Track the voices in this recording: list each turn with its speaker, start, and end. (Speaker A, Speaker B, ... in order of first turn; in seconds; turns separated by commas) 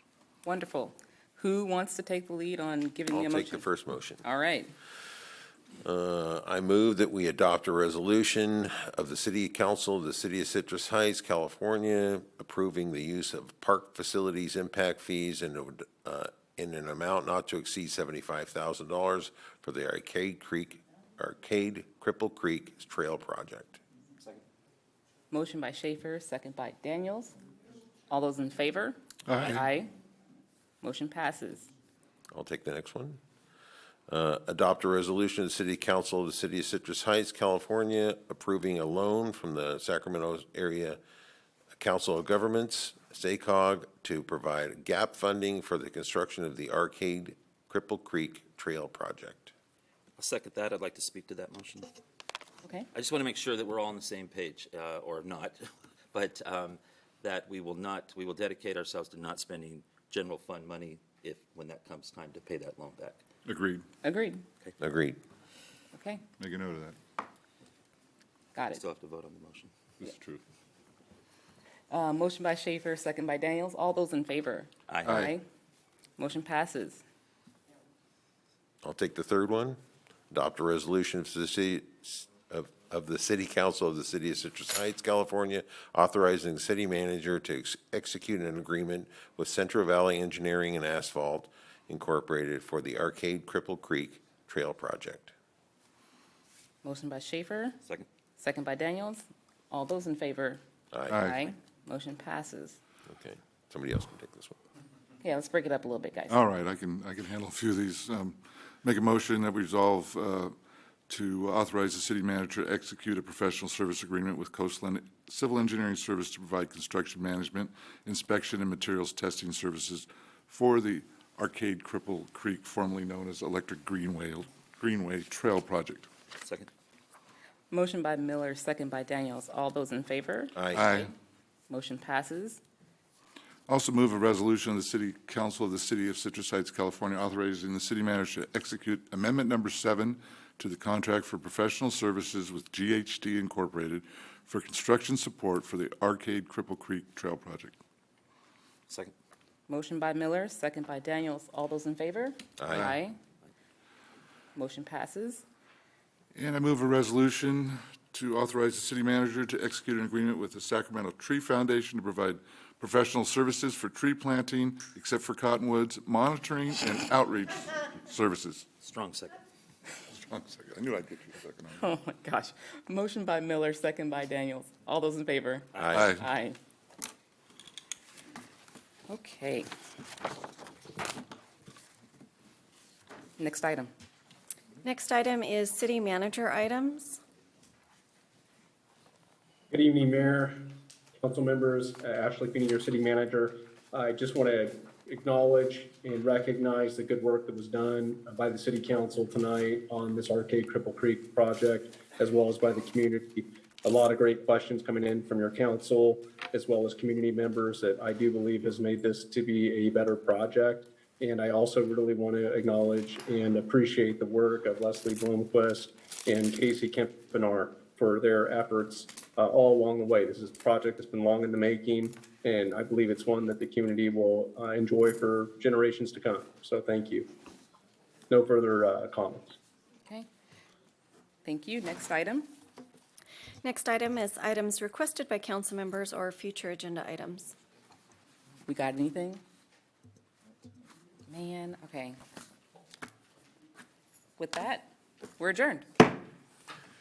Speaker A: 0.4-3.7, Speaker B: 3.1-4.2, Speaker A: 4.2-4.7, Speaker B: 5.8-23.8, Speaker A: 25.3-27.4, Speaker A: 28.1-29.9, Speaker C: 29.3-29.7, Speaker A: 30.8-31.7, Speaker B: 32.3-33.2, Speaker B: 34.1-41.0, Speaker B: 41.7-49.5, Speaker D: 50.2-51.9, Speaker D: 52.9-55.6, Speaker D: 56.1-63.2, Speaker C: 63.4-63.8, Speaker A: 64.0-64.5, Speaker B: 64.8-65.2, Speaker A: 65.9-66.2, Speaker C: 66.4-67.0, Speaker A: 68.5-68.8, Speaker D: 68.7-69.7, Speaker C: 70.0-70.4, Speaker A: 71.9-74.7, Speaker D: 74.9-75.3, Speaker C: 75.0-75.3, Speaker A: 76.2-77.0, Speaker B: 78.8-79.8, Speaker B: 80.3-95.3, Speaker A: 96.8-97.8, Speaker A: 98.4-102.8, Speaker B: 100.9-101.2, Speaker C: 101.1-101.3, Speaker B: 103.1-104.5, Speaker A: 105.2-106.3, Speaker C: 106.3-110.5, Speaker C: 111.1-126.1, Speaker D: 126.4-126.7, Speaker A: 127.7-131.1, Speaker B: 130.6-130.8, Speaker C: 130.7-131.1, Speaker A: 131.7-132.6, Speaker C: 133.7-147.8, Speaker A: 149.7-153.2, Speaker B: 152.6-152.9, Speaker C: 152.7-153.0, Speaker A: 154.5-155.4, Speaker C: 156.3-168.7, Speaker D: 168.8-169.4, Speaker C: 170.1-171.9, Speaker A: 171.8-176.6, Speaker D: 175.7-176.1, Speaker B: 175.8-176.1, Speaker C: 175.9-176.2, Speaker A: 179.1-179.7, Speaker A: 183.4-183.9, Speaker E: 184.8-187.2, Speaker F: 189.7-227.3, Speaker F: 228.3-229.6, Speaker A: 231.4-232.5, Speaker E: 233.6-237.5, Speaker A: 238.7-239.4, Speaker A: 241.3-242.2, Speaker A: 244.4-246.0